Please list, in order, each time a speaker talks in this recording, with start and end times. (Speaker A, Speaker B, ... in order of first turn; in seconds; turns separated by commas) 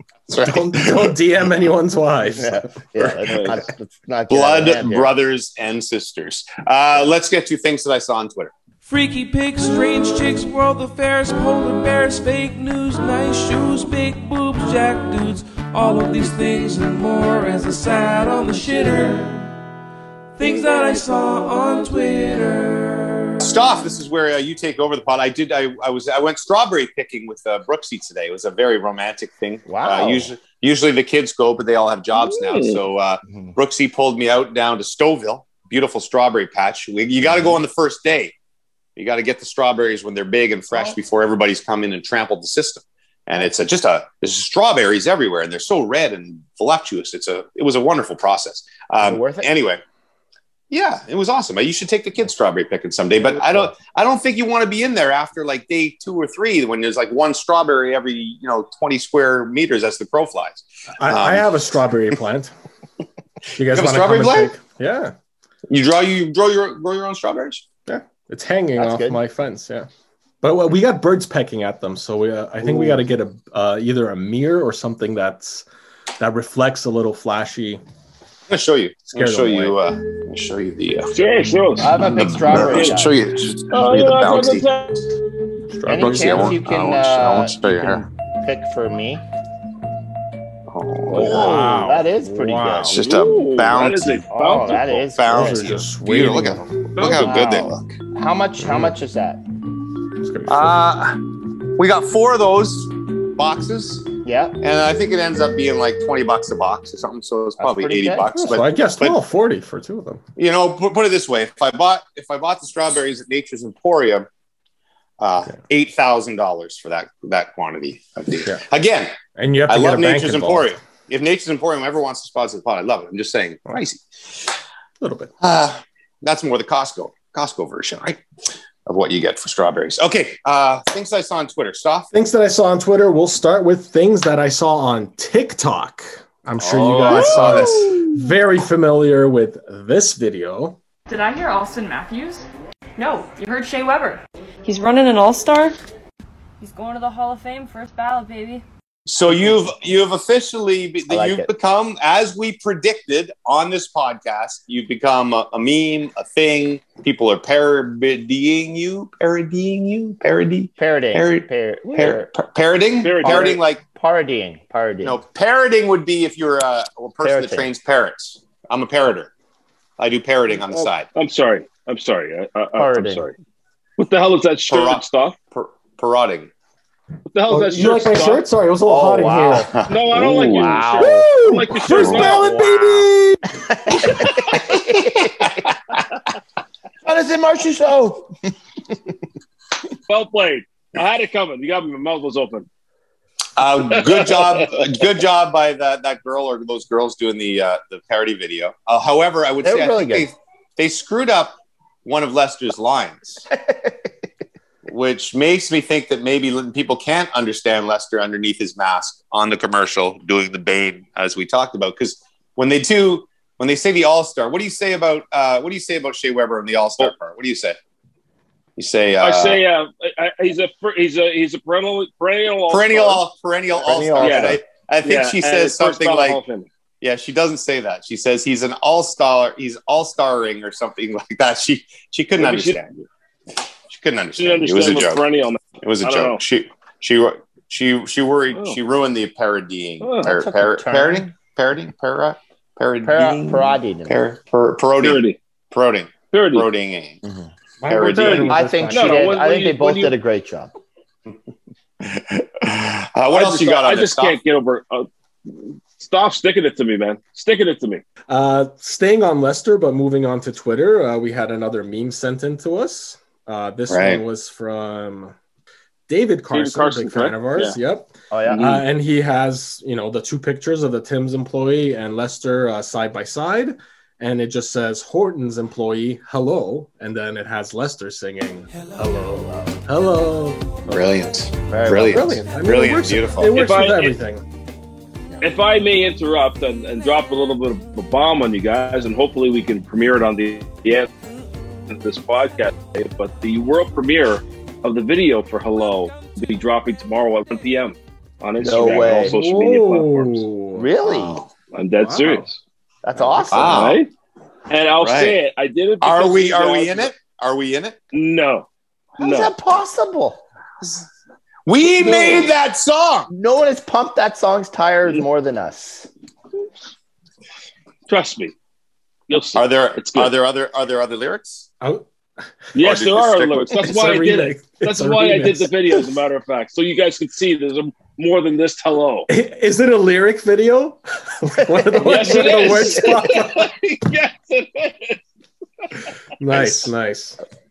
Speaker A: 0.3-1.1, Speaker B: 0.3-3.5, Speaker C: 2.4-5.1, Speaker D: 3.3-3.5, Speaker A: 4.3-8.5, Speaker E: 8.8-19.4, Speaker E: 20.4-23.3, Speaker A: 23.4-38.3, Speaker C: 29.7-30.3, Speaker D: 32.1-32.8, Speaker C: 33.2-33.5, Speaker A: 39.0-49.8, Speaker C: 49.0-49.5, Speaker A: 50.7-61.5, Speaker B: 61.0-62.5, Speaker B: 63.5-65.1, Speaker A: 63.6-64.5, Speaker A: 65.7-67.6, Speaker B: 67.8-69.9, Speaker C: 68.8-69.2, Speaker B: 70.4-75.6, Speaker B: 76.2-77.8, Speaker A: 78.5-81.1, Speaker B: 79.1-79.8, Speaker D: 81.1-83.0, Speaker C: 81.8-83.2, Speaker A: 82.0-84.7, Speaker D: 83.7-85.1, Speaker B: 85.7-86.6, Speaker C: 85.9-89.2, Speaker A: 85.9-88.0, Speaker A: 90.7-91.7, Speaker C: 91.1-93.0, Speaker B: 91.1-93.0, Speaker A: 92.8-98.0, Speaker D: 92.9-95.0, Speaker C: 94.3-95.7, Speaker B: 95.3-96.7, Speaker D: 97.0-97.3, Speaker C: 97.0-99.4, Speaker B: 98.6-98.9, Speaker B: 100.2-100.8, Speaker A: 100.5-101.2, Speaker A: 101.7-104.1, Speaker C: 104.2-104.6, Speaker A: 104.6-109.2, Speaker C: 107.6-108.4, Speaker B: 108.3-110.2, Speaker A: 110.4-114.3, Speaker A: 115.2-124.0, Speaker B: 119.3-120.7, Speaker B: 125.0-125.3, Speaker A: 125.4-128.2, Speaker A: 128.8-132.1, Speaker B: 132.1-140.8, Speaker A: 136.6-138.1, Speaker D: 137.1-137.6, Speaker F: 141.1-142.4, Speaker F: 143.0-145.8, Speaker F: 146.6-148.6, Speaker A: 149.1-163.8, Speaker C: 151.1-151.5, Speaker C: 160.8-162.3, Speaker D: 163.0-163.6, Speaker C: 163.2-165.2, Speaker A: 165.0-169.3, Speaker C: 167.2-167.7, Speaker A: 170.0-171.1, Speaker D: 170.7-173.3, Speaker C: 172.8-173.3, Speaker D: 174.0-175.3, Speaker A: 174.7-176.5, Speaker D: 177.3-178.4, Speaker B: 177.5-179.7, Speaker C: 178.9-183.0, Speaker D: 179.9-182.6, Speaker B: 181.1-183.1, Speaker A: 181.9-183.3, Speaker C: 183.7-185.7, Speaker C: 187.0-188.3, Speaker D: 190.1-192.7, Speaker A: 193.6-203.4, Speaker D: 194.0-194.7, Speaker C: 199.6-200.3, Speaker A: 204.8-217.8, Speaker A: 218.8-219.6, Speaker D: 219.2-223.2, Speaker A: 222.7-226.4, Speaker C: 223.8-224.6, Speaker D: 224.2-226.7, Speaker A: 227.0-232.9, Speaker D: 232.4-233.0, Speaker A: 233.9-235.2, Speaker D: 234.3-236.4, Speaker A: 235.8-247.2, Speaker D: 240.0-240.3, Speaker C: 240.2-241.3, Speaker C: 243.0-244.2, Speaker D: 245.0-245.4, Speaker D: 246.3-246.7, Speaker B: 247.8-249.3, Speaker A: 247.8-248.6, Speaker C: 248.3-250.7, Speaker D: 248.9-250.1, Speaker A: 252.0-254.4, Speaker D: 253.3-255.1, Speaker D: 256.0-258.0, Speaker B: 258.3-265.3, Speaker A: 263.9-264.2, Speaker B: 266.1-281.0, Speaker D: 266.5-267.8, Speaker C: 268.3-268.8, Speaker D: 268.5-268.8, Speaker A: 280.9-283.6, Speaker C: 281.7-282.4, Speaker B: 281.9-284.4, Speaker D: 283.5-284.1, Speaker D: 285.4-291.1, Speaker D: 291.9-300.4, Speaker C: 298.6-299.3, Speaker B: 299.2-300.9, Speaker C: 300.7-301.4, Speaker A: 301.0-301.5, Speaker D: 301.7-302.6, Speaker B: 302.0-302.4, Speaker C: 303.0-303.9, Speaker B: 303.2-303.7, Speaker A: 303.5-304.0, Speaker D: 303.6-304.1, Speaker D: 304.7-307.1, Speaker A: 305.0-305.4, Speaker A: 306.0-308.0, Speaker D: 308.1-308.7, Speaker C: 309.2-310.4, Speaker D: 309.2-309.5, Speaker A: 311.6-313.3, Speaker C: 312.0-312.5, Speaker C: 313.3-316.1, Speaker D: 318.1-318.5, Speaker D: 319.3-320.3, Speaker A: 319.5-321.7, Speaker D: 322.7-329.3, Speaker A: 322.8-323.9, Speaker B: 323.8-325.8, Speaker B: 329.3-333.7, Speaker D: 332.0-335.2, Speaker B: 336.4-337.4, Speaker A: 336.5-336.9